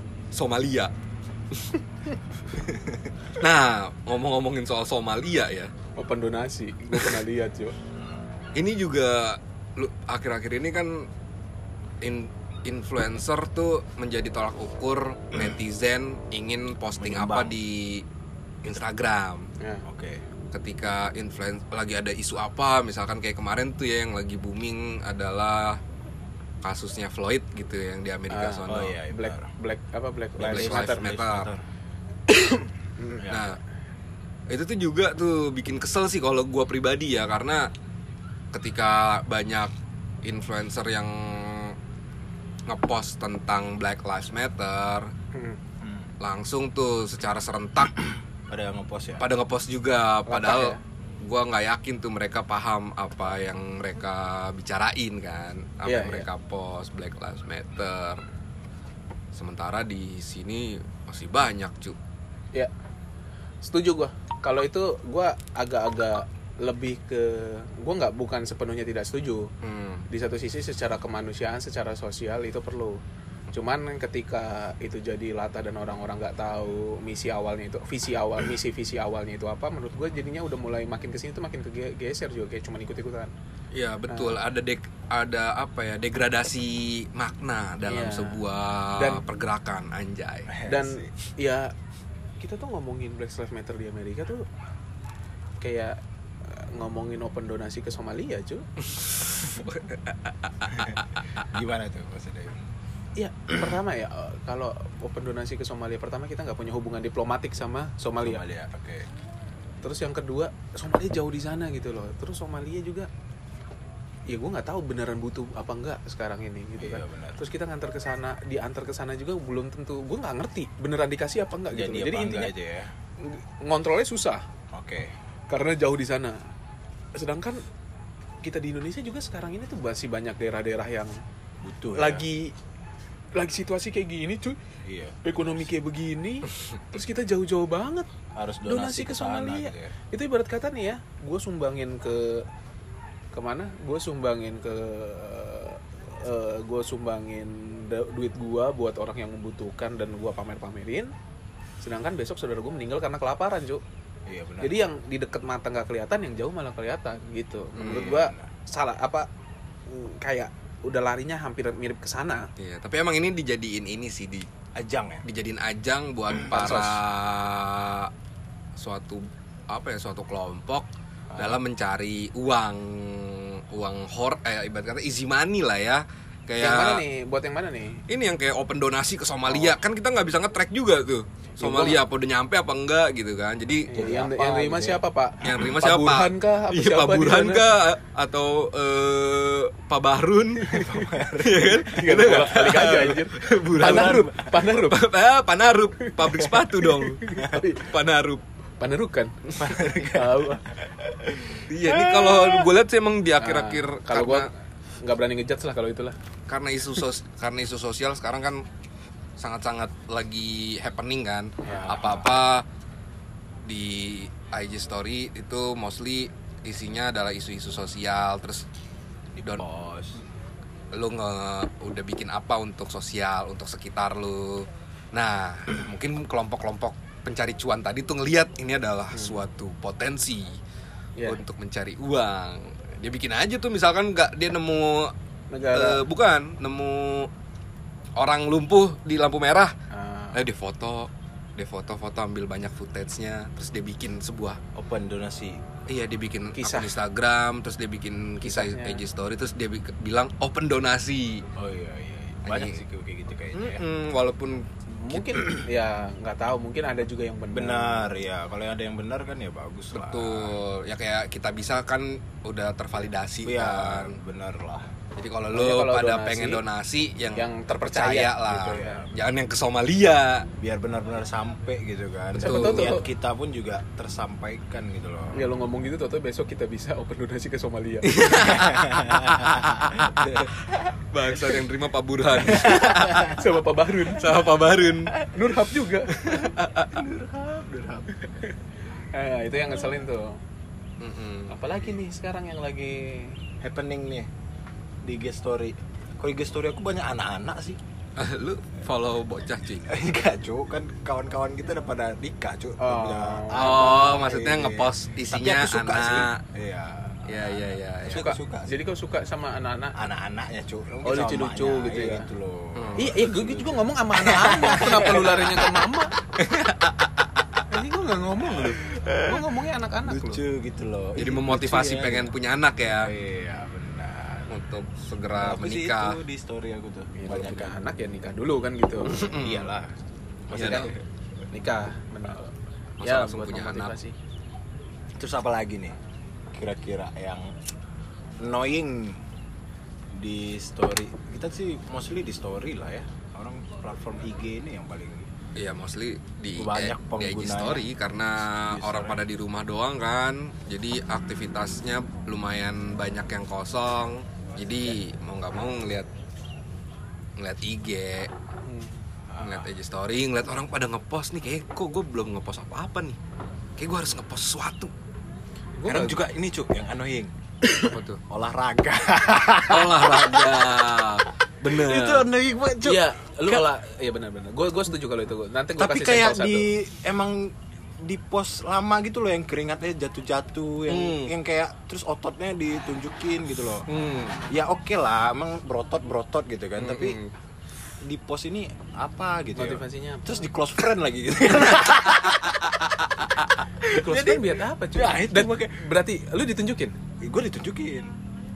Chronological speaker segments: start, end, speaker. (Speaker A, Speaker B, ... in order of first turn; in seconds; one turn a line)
Speaker A: 0.3-0.9
Speaker B: 2.6-3.0
Speaker A: 3.4-5.7
Speaker C: 6.0-7.7
Speaker A: 8.5-11.1
Speaker A: 12.0-18.1
Speaker B: 17.1-17.5
Speaker A: 18.6-19.5
Speaker C: 19.6-19.8
Speaker B: 19.9-20.2
Speaker A: 20.5-25.8
Speaker A: 26.6-28.9
Speaker C: 28.3-31.1
Speaker B: 28.7-29.5
Speaker A: 30.4-31.5
Speaker B: 30.4-31.6
Speaker C: 32.4-33.3
Speaker A: 33.3-33.6
Speaker A: 34.5-37.7
Speaker A: 38.5-39.7
Speaker A: 40.2-41.7
Speaker A: 42.7-45.1
Speaker C: 45.3-45.6
Speaker B: 45.8-46.1
Speaker A: 46.2-48.0
Speaker B: 48.5-49.2
Speaker A: 49.2-58.2
Speaker C: 50.3-50.8
Speaker C: 55.8-56.3
Speaker A: 59.3-62.0
Speaker C: 63.6-69.5
Speaker A: 69.6-70.0
Speaker C: 70.1-83.3
Speaker A: 83.7-90.5
Speaker C: 84.1-84.4
Speaker C: 87.8-89.2
Speaker B: 90.5-91.1
Speaker C: 90.7-91.8
Speaker C: 92.4-94.5
Speaker C: 95.6-98.7
Speaker A: 99.2-101.4
Speaker B: 100.8-102.6
Speaker C: 103.2-108.4
Speaker B: 108.2-109.1
Speaker C: 109.8-113.1
Speaker C: 114.3-122.5
Speaker B: 116.8-117.4
Speaker B: 121.7-122.9
Speaker C: 123.2-124.5
Speaker B: 124.7-125.1
Speaker C: 125.5-126.5
Speaker C: 127.1-127.6
Speaker C: 128.4-131.2
Speaker B: 131.6-132.2
Speaker C: 131.9-132.6
Speaker C: 133.3-134.6
Speaker B: 134.8-135.3
Speaker C: 135.2-138.1
Speaker B: 138.3-139.9
Speaker C: 138.6-142.5
Speaker C: 143.3-151.1
Speaker C: 151.8-153.8
Speaker B: 154.3-154.8
Speaker C: 154.6-159.3
Speaker A: 157.7-158.0
Speaker B: 157.8-158.5
Speaker C: 159.9-162.5
Speaker A: 162.6-164.5
Speaker B: 164.8-165.2
Speaker A: 165.2-168.1
Speaker C: 166.5-167.0
Speaker A: 168.8-177.0
Speaker C: 176.6-178.0
Speaker A: 178.1-183.9
Speaker C: 181.6-182.0
Speaker C: 183.9-187.8
Speaker B: 183.9-185.0
Speaker A: 185.4-198.4
Speaker B: 190.7-192.7
Speaker C: 191.9-195.0
Speaker B: 193.7-194.6
Speaker C: 196.8-197.9
Speaker C: 198.8-200.7
Speaker B: 199.6-200.5
Speaker A: 201.6-204.5
Speaker B: 202.0-202.6
Speaker C: 203.4-206.2
Speaker A: 206.5-208.6
Speaker A: 209.4-212.6
Speaker B: 211.6-212.2
Speaker A: 213.6-218.7
Speaker B: 219.6-220.2
Speaker A: 220.9-230.6
Speaker C: 229.1-229.4
Speaker C: 231.2-231.4
Speaker A: 231.2-235.1
Speaker C: 235.5-236.0
Speaker A: 235.7-237.3
Speaker A: 238.2-239.7
Speaker C: 239.9-240.4
Speaker A: 240.3-244.6
Speaker B: 244.7-245.6
Speaker A: 245.9-251.4
Speaker C: 246.5-247.0
Speaker C: 248.4-249.0
Speaker B: 251.6-253.8
Speaker A: 252.4-252.8
Speaker A: 253.5-255.4
Speaker C: 254.9-258.1
Speaker B: 257.5-260.6
Speaker A: 259.9-264.2
Speaker B: 263.4-264.9
Speaker A: 265.1-270.5
Speaker C: 265.5-266.6
Speaker C: 267.3-269.0
Speaker B: 268.5-269.1
Speaker B: 270.6-275.5
Speaker C: 272.4-273.1
Speaker A: 272.4-272.9
Speaker C: 275.3-278.3
Speaker A: 278.1-280.3
Speaker B: 278.4-280.7
Speaker A: 281.1-283.3
Speaker B: 282.5-283.3
Speaker C: 283.2-284.4
Speaker A: 284.1-285.1
Speaker B: 285.1-285.4
Speaker C: 285.3-286.1
Speaker A: 286.1-286.9
Speaker B: 286.3-288.1
Speaker C: 288.2-290.4
Speaker A: 291.0-291.6
Speaker C: 291.5-293.4
Speaker B: 293.6-294.3
Speaker B: 295.0-297.8
Speaker A: 298.2-299.9
Speaker B: 299.9-304.9
Speaker C: 302.8-304.2
Speaker A: 303.5-306.4
Speaker C: 305.3-306.3
Speaker B: 306.5-308.8
Speaker A: 307.2-308.3
Speaker C: 308.1-309.9
Speaker B: 309.9-316.5
Speaker C: 311.0-312.3
Speaker A: 312.8-313.1
Speaker C: 313.0-316.1
Speaker C: 317.7-320.4
Speaker B: 318.5-319.5
Speaker B: 320.0-322.3
Speaker A: 321.2-323.1
Speaker B: 322.9-324.5
Speaker A: 324.5-326.2
Speaker B: 325.4-327.8
Speaker C: 327.2-329.2
Speaker A: 329.1-329.7
Speaker B: 329.2-329.9
Speaker B: 330.5-331.0
Speaker C: 330.5-330.9
Speaker A: 330.5-330.9
Speaker C: 331.5-334.2
Speaker A: 333.0-333.9
Speaker B: 335.2-335.9
Speaker B: 336.5-337.5
Speaker B: 338.4-339.2
Speaker B: 340.1-345.3
Speaker A: 345.6-356.1
Speaker B: 346.6-347.9
Speaker B: 348.7-349.2
Speaker A: 357.4-358.3
Speaker C: 358.6-359.0
Speaker B: 359.3-359.6
Speaker A: 359.4-363.2
Speaker A: 363.8-364.9
Speaker C: 365.8-366.2
Speaker B: 365.8-370.6
Speaker A: 367.9-368.2
Speaker A: 369.7-372.2
Speaker B: 371.7-373.6
Speaker C: 372.8-376.7
Speaker B: 375.8-383.9
Speaker A: 380.9-381.3
Speaker A: 383.9-384.4
Speaker B: 384.5-387.2
Speaker A: 386.8-387.3
Speaker B: 388.0-392.8
Speaker C: 389.5-390.5
Speaker B: 393.8-395.6
Speaker C: 393.9-397.0
Speaker B: 397.2-398.1